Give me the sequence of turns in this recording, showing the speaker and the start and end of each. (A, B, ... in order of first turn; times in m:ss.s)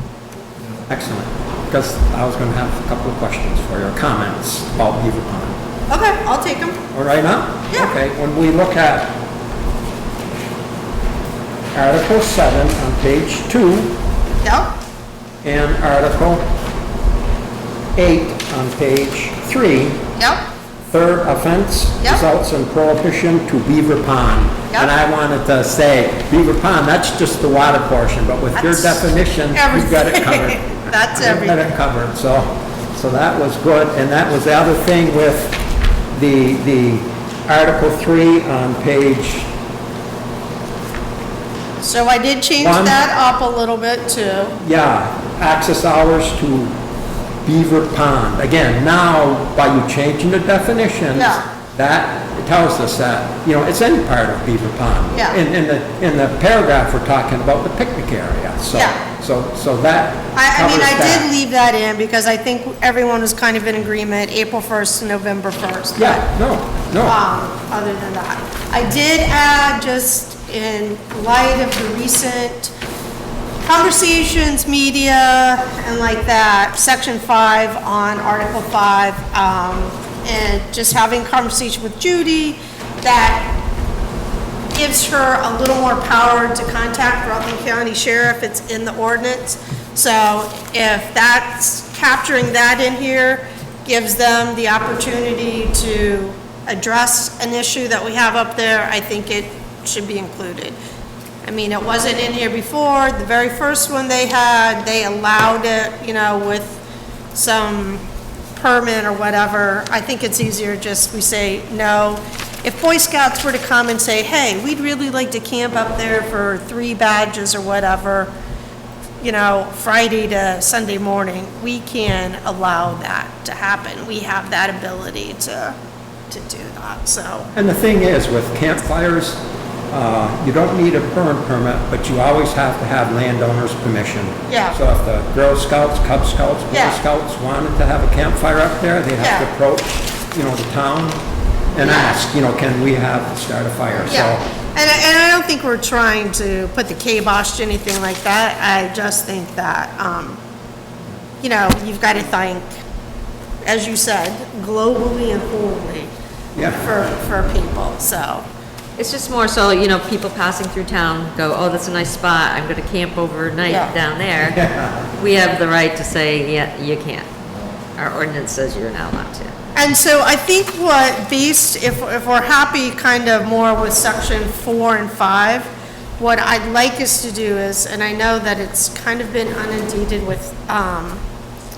0:00.9-0:05.6 A
0:05.9-0:06.8 B
0:06.9-0:09.2 A
0:11.7-0:14.0 A
0:14.4-0:14.7 B
0:15.4-0:16.4 A
0:17.9-0:20.0 A
0:20.2-0:20.4 B
0:20.9-0:35.6 A
0:28.5-0:31.6 B
0:36.1-0:39.5 A
0:41.8-0:44.6 B
0:42.6-0:43.0 A
0:44.6-0:46.8 A
0:47.4-1:01.3 A
0:51.1-0:51.4 B
0:55.1-0:55.4 B
0:58.7-0:59.0 B
1:00.3-1:06.3 B
1:06.0-1:07.2 A
1:07.0-1:12.7 B
1:13.6-1:23.6 B
1:24.7-1:40.8 B
1:41.4-1:46.8 B
1:47.3-1:58.3 B
1:59.2-2:05.8 B
2:06.3-2:07.5 B
2:07.5-2:21.2 A
2:14.5-2:14.8 B
2:16.7-2:17.0 B
2:19.2-2:19.5 B
2:21.7-2:24.4 A
2:21.8-2:22.2 B
2:24.0-2:30.4 B
2:31.4-2:32.7 B
2:33.6-2:36.1 B
2:36.5-2:36.9 A
2:36.6-2:38.4 B
2:39.0-2:44.6 C
2:43.6-2:43.9 B
2:44.5-2:44.9 A
2:45.2-2:47.3 C
2:48.0-2:49.5 C
2:49.7-3:01.2 B